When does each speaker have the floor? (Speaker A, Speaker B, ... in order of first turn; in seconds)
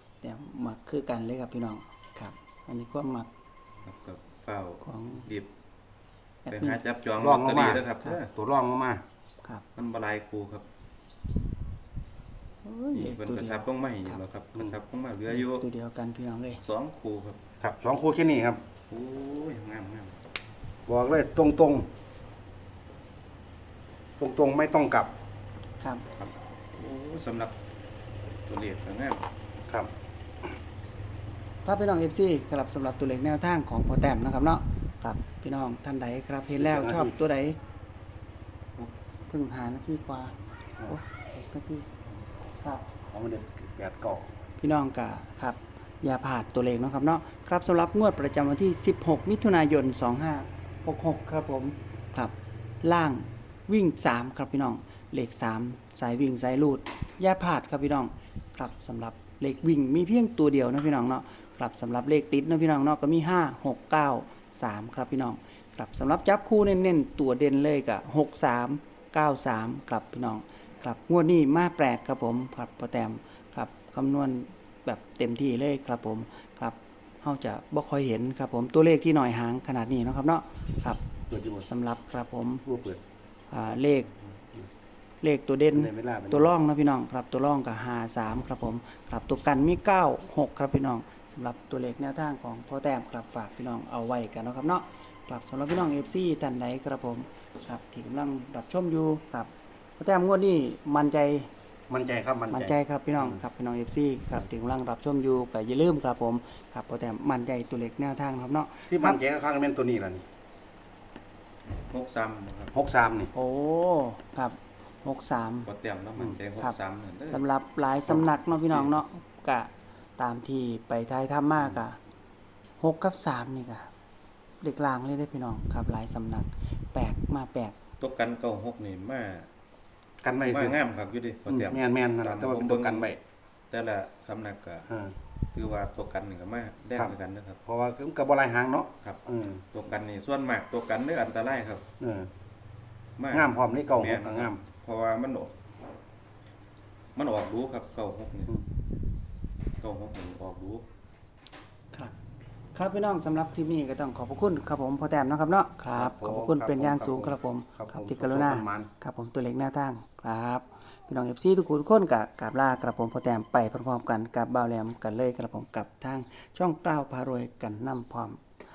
Speaker A: 0.2-3.3, 4.8-5.3, 6.5-6.8, 12.6-14.2, 15.3-16.6, 25.8-26.1, 31.6-37.6, 39.3-41.9, 44.6-81.0, 81.6-82.7, 83.5-84.1, 85.2-101.5, 102.5-109.2, 113.3-115.7, 117.3-122.0, 122.8-123.9, 124.6-127.8, 152.7-168.4
Speaker B: 3.8-5.5, 6.5-8.3, 9.8-10.7, 12.9-15.7, 16.6-17.4, 18.9-20.2, 26.7-27.6, 28.5-29.2, 111.9-112.7, 115.7-117.4, 128.0-129.5, 130.5-133.1, 133.7-134.9, 135.5-137.6, 139.7-141.8, 143.2-145.5, 147.2-148.6, 149.8-150.8
Speaker C: 7.2-9.0, 17.6-18.6, 20.9-21.9, 24.2-25.1, 36.5-37.1, 43.1-44.3, 81.3-81.7, 82.7-83.0, 85.7-86.5, 101.9-103.4, 108.9-110.2, 112.7-113.3, 130.2-130.8, 131.5-133.2, 134.9-135.2, 137.0-139.7, 142.0-142.3, 143.3-144.6, 155.9-158.9